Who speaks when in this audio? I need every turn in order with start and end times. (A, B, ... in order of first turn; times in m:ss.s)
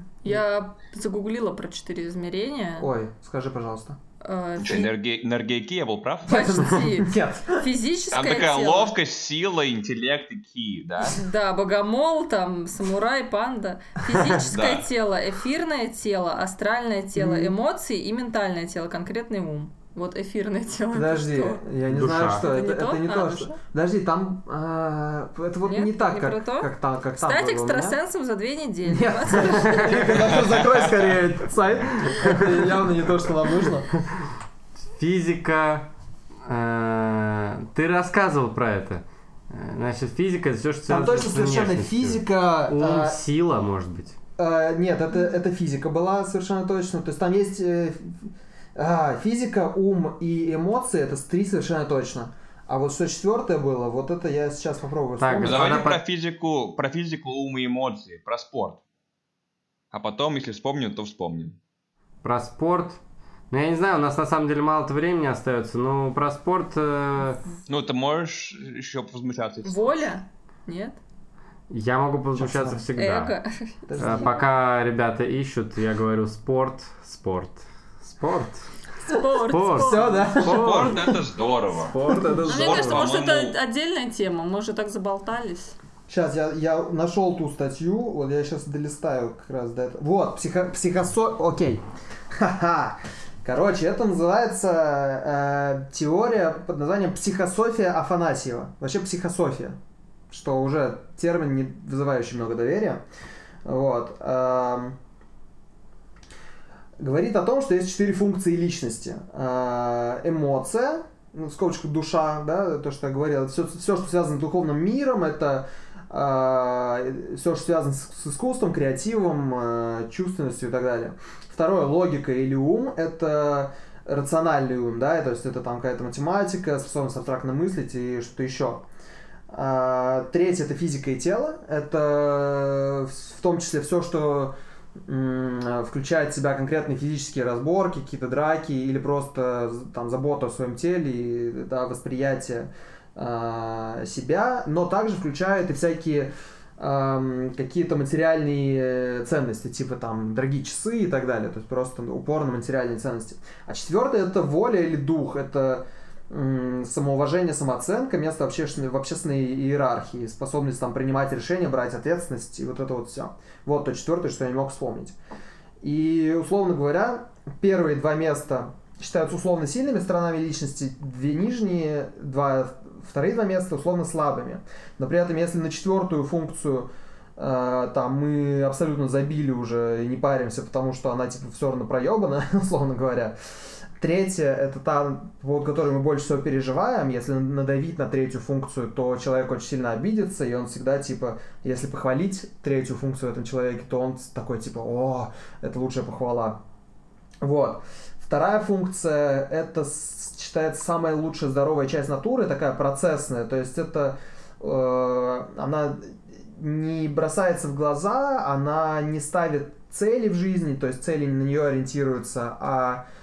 0:00.2-0:02.9 A
0:02.8-0:04.0 B
0:04.2-0:04.9 A
0:04.6-0:06.7 C
0:06.3-0:07.7 B
0:06.3-0:08.9 A
0:08.1-0:11.3 C
0:11.0-0:21.6 A
0:14.4-0:14.9 C
0:17.2-0:17.5 B
0:20.9-0:28.0 B
0:21.9-0:22.4 D
0:22.2-0:23.6 A
0:25.6-0:26.7 A
0:27.2-0:30.0 A
0:28.9-0:33.9 B
0:29.3-0:30.2 D
0:32.2-0:33.0 D
0:34.0-0:34.3 D
0:34.9-0:35.9 D
0:36.4-0:44.2 D
0:40.9-0:43.2 B
0:44.4-0:55.8 B
0:55.2-0:56.0 D
0:55.4-0:58.8 C
0:59.9-1:01.6 C
1:02.2-1:07.4 D
1:07.7-1:10.0 C
1:09.6-1:11.0 A
1:11.7-1:13.4 D
1:12.3-1:12.9 B
1:13.0-1:14.4 A
1:13.9-1:14.3 B
1:14.0-1:18.7 D
1:19.1-1:20.3 A
1:19.5-1:21.2 D
1:19.7-1:21.2 B
1:20.4-1:23.6 C
1:21.9-1:23.0 D
1:22.0-1:22.6 B
1:22.5-1:25.8 A
1:26.1-1:39.8 B
1:40.3-1:43.0 B
1:43.6-1:45.0 B
1:47.0-2:08.8 B
2:09.5-2:14.5 B
2:15.0-2:45.1 B
2:45.8-3:03.4 B
3:04.0-3:16.6 B
3:17.4-3:33.0 B